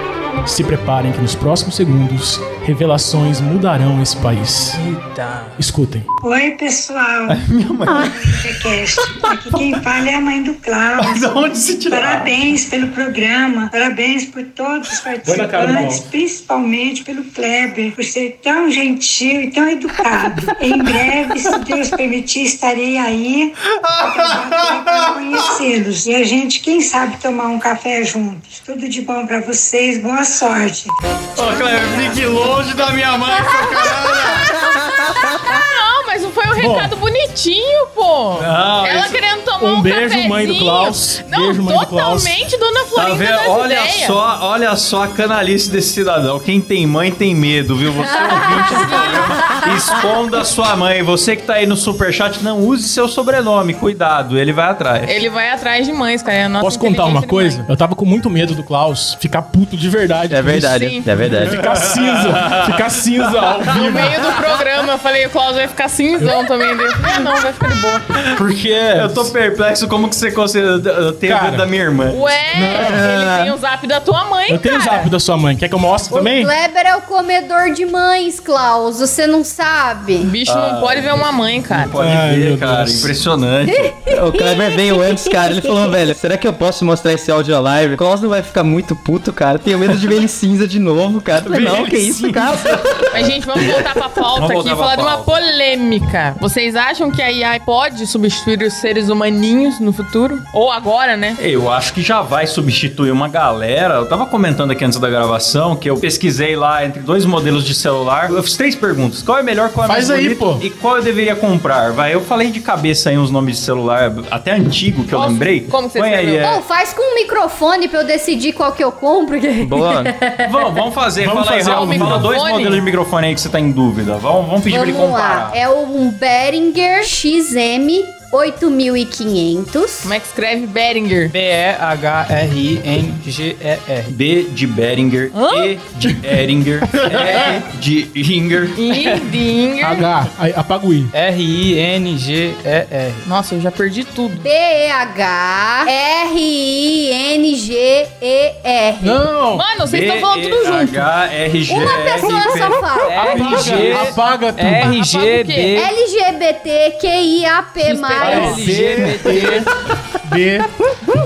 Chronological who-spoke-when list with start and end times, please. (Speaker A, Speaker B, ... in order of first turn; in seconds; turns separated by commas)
Speaker A: 0.5-4.8, Speaker B: 4.8-5.6, Speaker A: 5.6-6.1, Speaker C: 6.2-32.5, Speaker D: 7.3-9.8, Speaker D: 11.0-12.5, Speaker A: 15.2-16.0, Speaker D: 20.5-21.7, Speaker D: 23.7-25.6, Speaker D: 31.4-35.0, Speaker E: 33.5-35.0, Speaker F: 34.4-44.2, Speaker A: 36.6-36.9, Speaker D: 38.4-39.2, Speaker A: 39.6-42.4, Speaker D: 43.0-55.2, Speaker F: 48.6-49.7, Speaker E: 48.6-49.0, Speaker F: 55.1-57.7, Speaker A: 56.6-64.2, Speaker G: 60.3-61.6, Speaker F: 60.7-61.1, Speaker D: 61.4-64.2, Speaker F: 63.7-68.0, Speaker A: 68.3-69.3, Speaker D: 69.0-72.4, Speaker A: 71.3-71.7, Speaker F: 72.1-75.1, Speaker A: 72.5-73.1, Speaker A: 74.5-76.5, Speaker E: 76.1-80.3, Speaker F: 80.2-81.9, Speaker D: 80.5-84.0, Speaker A: 82.0-83.1, Speaker E: 83.7-86.0, Speaker G: 84.1-93.3, Speaker D: 91.4-93.2, Speaker F: 93.1-101.4, Speaker D: 94.3-95.3, Speaker D: 101.4-116.6, Speaker A: 109.9-110.6, Speaker F: 115.1-116.6, Speaker E: 116.4-120.6, Speaker G: 119.6-120.1, Speaker D: 120.4-125.6, Speaker A: 121.2-122.3, Speaker F: 121.7-122.8, Speaker E: 124.7-130.1, Speaker F: 130.0-131.3, Speaker B: 131.3-134.1, Speaker D: 134.1-138.8, Speaker F: 135.3-135.8, Speaker A: 136.9-137.6, Speaker B: 137.1-137.6, Speaker F: 138.8-140.1, Speaker A: 139.8-141.1, Speaker B: 141.1-143.3, Speaker F: 143.2-144.5, Speaker E: 144.4-149.3, Speaker A: 149.0-149.7, Speaker F: 149.5-151.1, Speaker D: 149.9-154.1, Speaker E: 151.7-153.7, Speaker B: 153.0-155.9, Speaker A: 153.2-155.0, Speaker F: 154.8-155.8, Speaker E: 155.8-158.8, Speaker B: 157.8-159.7, Speaker A: 158.2-159.7, Speaker A: 160.2-160.7